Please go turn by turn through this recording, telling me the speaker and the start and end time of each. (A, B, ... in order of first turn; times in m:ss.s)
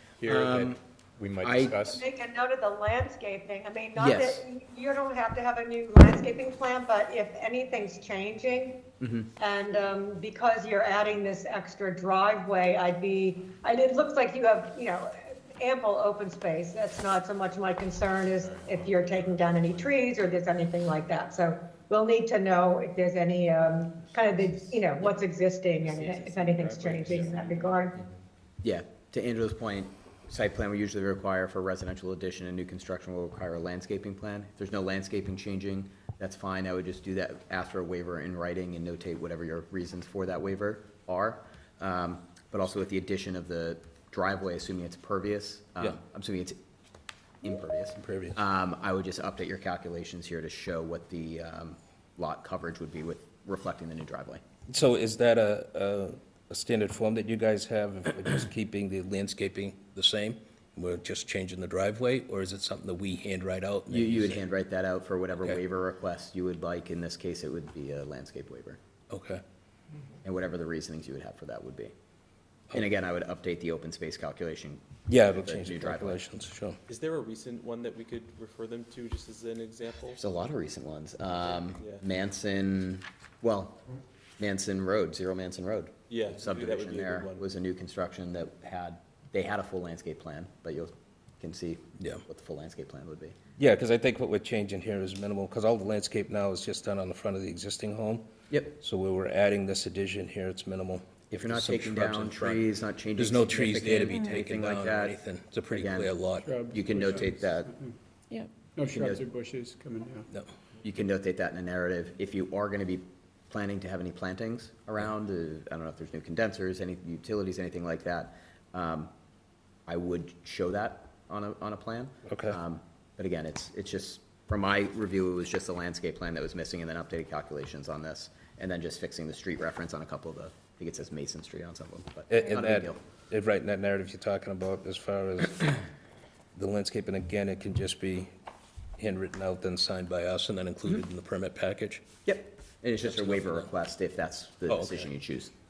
0:00.2-0:02.0 A
0:00.2-0:00.8 B
0:01.4-0:01.8 B
0:01.8-0:08.8 C
0:04.0-0:04.4 B
0:09.0-0:09.3 B
0:09.4-0:28.0 C
0:26.4-0:26.9 D
0:27.1-0:27.3 A
0:28.6-0:46.6 B
0:47.4-0:54.4 B
0:48.0-0:48.4 E
0:54.7-1:04.4 E
1:03.9-1:08.8 B
1:09.1-1:09.4 E
1:10.2-1:11.9 B
1:12.7-1:16.2 B
1:15.1-1:16.8 E
1:16.9-1:20.2 D
1:20.2-1:23.8 B
1:24.4-1:33.4 B
1:26.1-1:27.4 D
1:33.6-1:42.6 E
1:41.3-1:45.2 B
1:43.2-1:46.5 E
1:45.7-1:46.2 B
1:46.4-1:48.0 F
1:46.7-1:47.7 B
1:48.7-1:50.3 F
1:50.8-1:59.1 B
1:59.9-2:13.0 B
2:02.3-2:02.6 E
2:12.3-2:15.8 E
2:16.5-2:18.3 E
2:19.0-2:22.0 E
2:22.2-2:25.5 B
2:23.2-2:23.6 E
2:24.7-2:25.1 E